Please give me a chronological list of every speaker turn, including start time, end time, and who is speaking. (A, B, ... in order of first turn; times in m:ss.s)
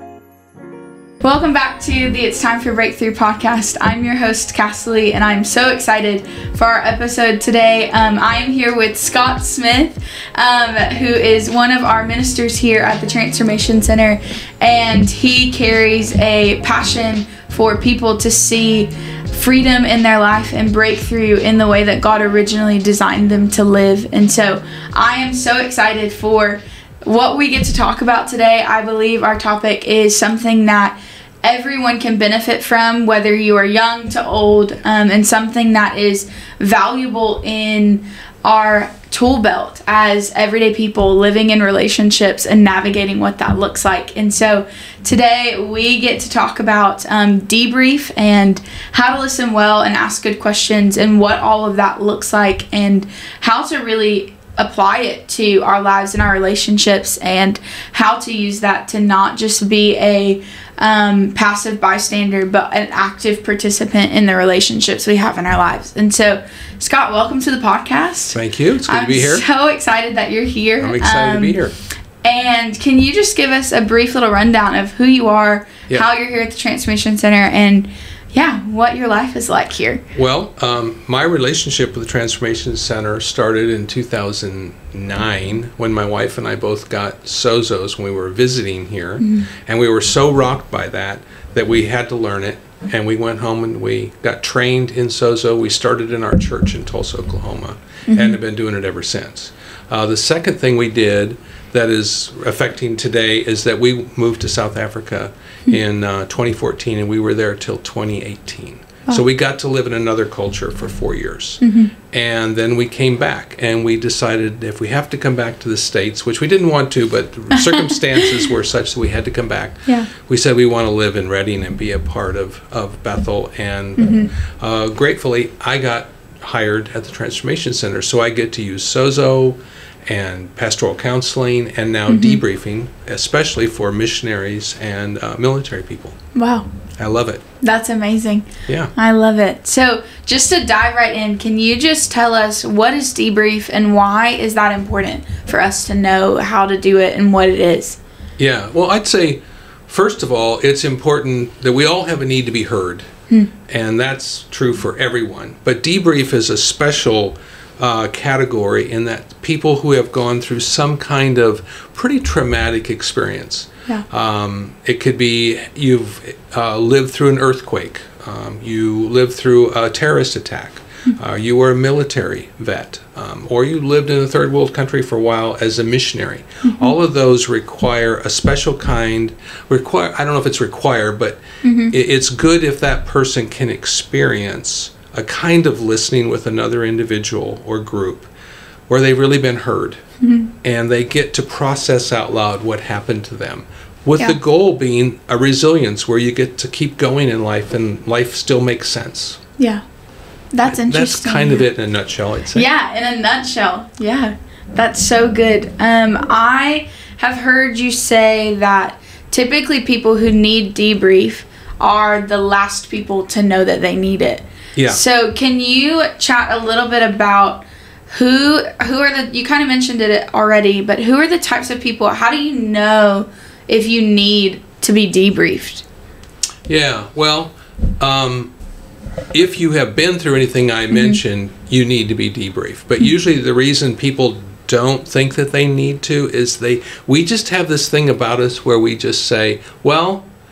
0:01.2-1:11.6 A
1:08.3-1:09.4 B
1:10.8-1:11.7 B
1:12.2-1:20.0 A
1:20.1-2:16.2 B
1:29.2-1:29.5 A
1:38.1-1:38.4 A
1:51.6-1:51.9 A
1:57.5-1:58.4 A
2:04.0-2:04.3 A
2:12.1-2:12.4 A
2:16.3-2:16.7 A
2:17.0-2:17.4 B
2:17.6-2:28.0 A
2:18.7-2:18.9 B
2:28.4-2:33.1 B
2:33.7-3:08.3 B
2:56.6-2:56.9 A
3:01.6-3:01.9 A
3:08.9-3:10.0 B
3:10.2-3:10.5 A
3:10.6-3:19.4 B
3:20.5-3:21.7 A
3:20.6-3:22.7 B
3:22.5-3:45.8 A
3:46.7-3:48.5 B
3:49.3-4:00.2 B
3:50.9-3:51.2 A